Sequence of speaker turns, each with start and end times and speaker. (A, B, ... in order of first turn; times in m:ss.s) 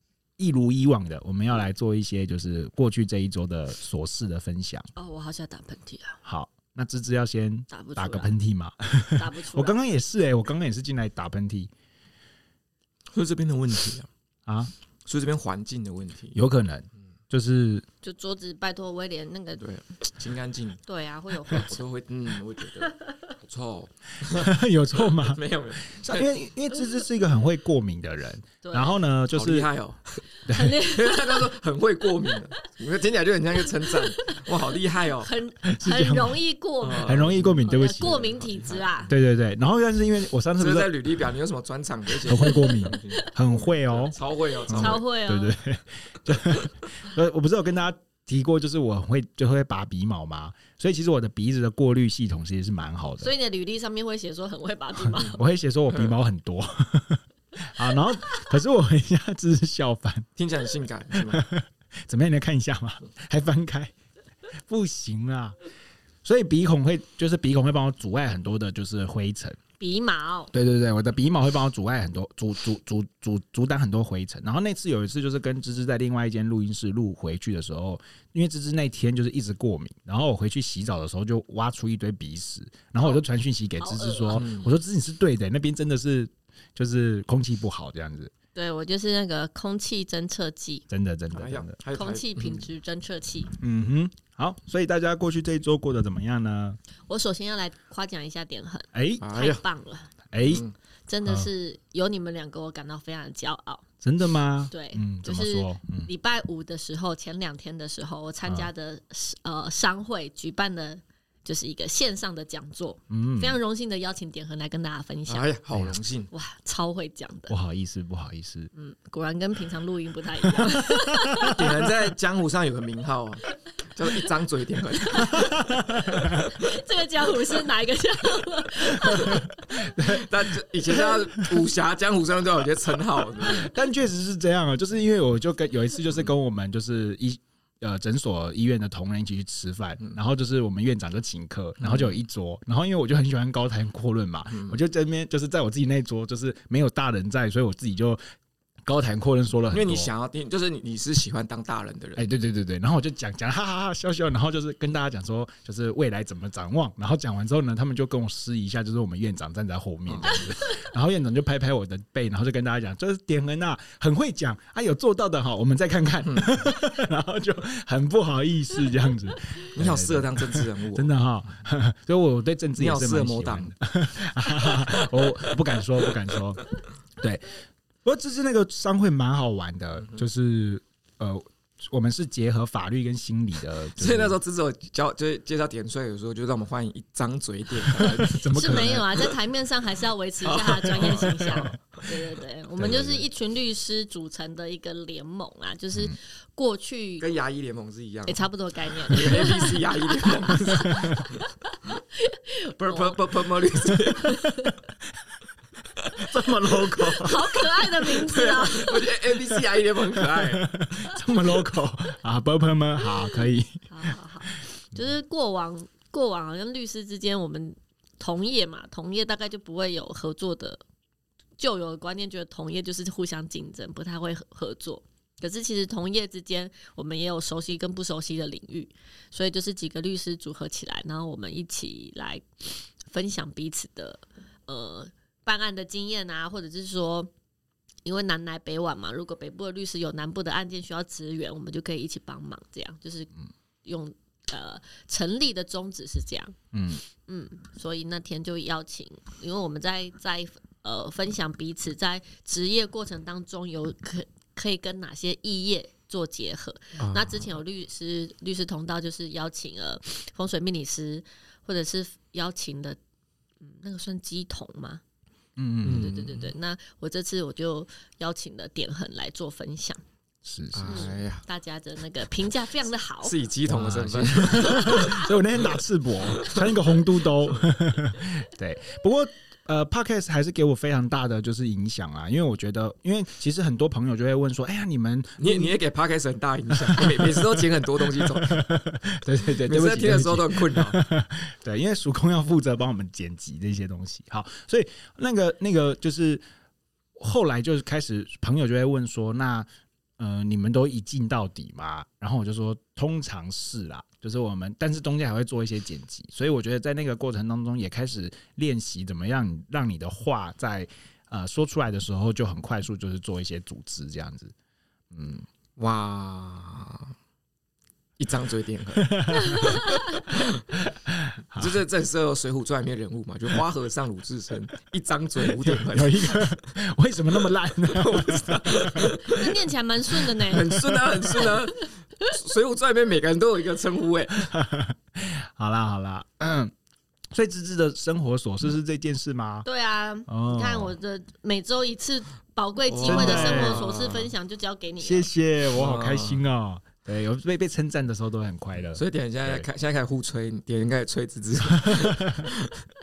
0:00.4-0:04.9 A
0:05.0-0:06.2 B
0:06.2-0:11.7 A
0:07.7-0:08.3 B
0:09.2-0:09.8 B
0:13.1-0:14.1 C
0:14.4-0:14.7 A
0:15.0-0:16.4 C
0:16.3-0:17.8 A
0:18.0-0:19.6 B
0:19.6-0:20.8 C
0:20.9-0:21.8 B
0:21.5-0:24.5 C
0:22.8-0:23.1 B
0:24.3-0:29.7 A
0:25.1-0:26.3 C
0:28.6-0:29.0 B
0:29.3-0:30.0 C
0:30.4-0:30.8 A
0:30.5-0:31.5 B
0:30.8-0:35.3 C
0:33.9-0:39.1 B
0:35.6-0:36.4 A
0:36.8-0:39.1 C
0:37.0-0:38.4 A
0:39.1-0:40.9 A
0:40.6-0:45.0 C
0:42.2-0:44.2 A
0:42.4-0:43.2 B
0:44.7-0:53.3 A
0:44.7-0:45.5 B
0:53.2-0:55.4 B
0:55.0-1:00.3 A
1:00.4-1:01.4 C
1:01.2-1:03.9 A
1:04.7-1:05.5 A
1:06.2-1:09.6 A
1:09.8-1:10.5 B
1:10.5-1:28.3 A
1:23.8-1:24.4 B
1:24.3-1:24.7 C
1:28.5-1:30.8 B
1:30.9-1:31.7 A
1:31.3-1:32.6 C
1:31.9-1:33.5 B
1:33.6-1:36.8 A
1:37.1-1:40.1 B
1:38.9-1:39.3 A
1:39.2-1:39.6 C
1:40.3-1:40.6 A
1:40.5-1:40.7 C
1:41.1-1:43.8 B
1:44.0-1:46.1 A
1:44.7-1:55.5 B
1:48.4-1:48.7 A
1:53.1-1:53.6 A
1:55.3-1:56.3 C
1:56.3-1:57.5 B
1:57.5-1:58.7 A
1:58.7-2:01.6 B
2:01.5-2:05.4 C
2:05.0-2:09.5 B
2:05.3-2:06.5 A
2:09.0-2:10.3 A
2:10.0-2:13.7 C
2:13.4-2:28.2 A
2:21.8-2:22.1 C
2:24.5-2:24.8 C
2:28.8-2:30.1 A
2:29.7-2:32.3 C
2:32.2-2:56.6 A
2:40.1-2:40.4 C
2:46.2-2:46.6 C
2:49.7-2:51.1 C
2:52.8-2:53.7 C
2:54.6-2:55.0 C
2:57.2-3:04.4 A
3:04.0-3:09.3 C
3:07.8-3:09.1 A
3:08.4-3:17.2 B
3:10.4-3:12.1 C
3:11.0-3:11.8 A
3:12.8-3:13.2 A
3:12.8-3:13.1 C
3:17.2-3:21.4 C
3:18.3-3:24.7 B
3:20.7-3:21.2 A
3:22.8-3:24.4 C
3:26.2-3:27.4 A
3:27.0-3:29.4 B
3:27.6-3:30.8 C
3:30.2-3:34.1 A
3:33.9-3:40.8 B
3:41.6-3:52.4 B
3:53.1-3:57.3 B
3:58.0-4:03.3 B
4:03.8-4:06.5 B
4:06.7-4:07.0 A
4:07.2-4:23.0 B
4:17.0-4:17.5 C
4:23.6-4:25.0 B
4:25.6-4:26.3 A
4:25.8-4:26.5 C
4:25.8-4:30.0 B
4:30.4-4:31.2 A
4:30.7-4:31.4 C
4:30.9-4:33.4 B
4:33.2-4:35.3 C
4:33.7-4:45.8 A
4:34.7-4:35.2 B
4:36.3-4:36.7 C
4:45.4-4:48.6 C
4:46.8-4:47.6 A
4:48.1-4:56.4 A
4:49.6-4:51.0 C
4:57.2-4:59.7 A
5:00.2-5:14.5 A
5:15.1-5:15.4 A
5:15.8-5:17.1 C
5:18.2-5:20.6 C
5:19.0-5:20.0 A
5:19.4-5:20.2 B
5:20.7-5:21.8 A
5:21.6-5:26.6 C
5:25.5-5:29.1 A
5:27.8-5:34.4 C
5:29.2-5:30.8 B
5:30.7-5:31.5 A
5:34.4-5:36.7 A
5:37.3-5:39.6 A
5:39.6-5:45.3 B
5:40.3-5:40.9 A
5:42.9-5:44.3 C
5:43.0-5:43.8 A
5:45.0-5:49.6 A
5:45.7-5:46.4 C
5:48.9-5:52.8 C
5:51.7-5:52.5 A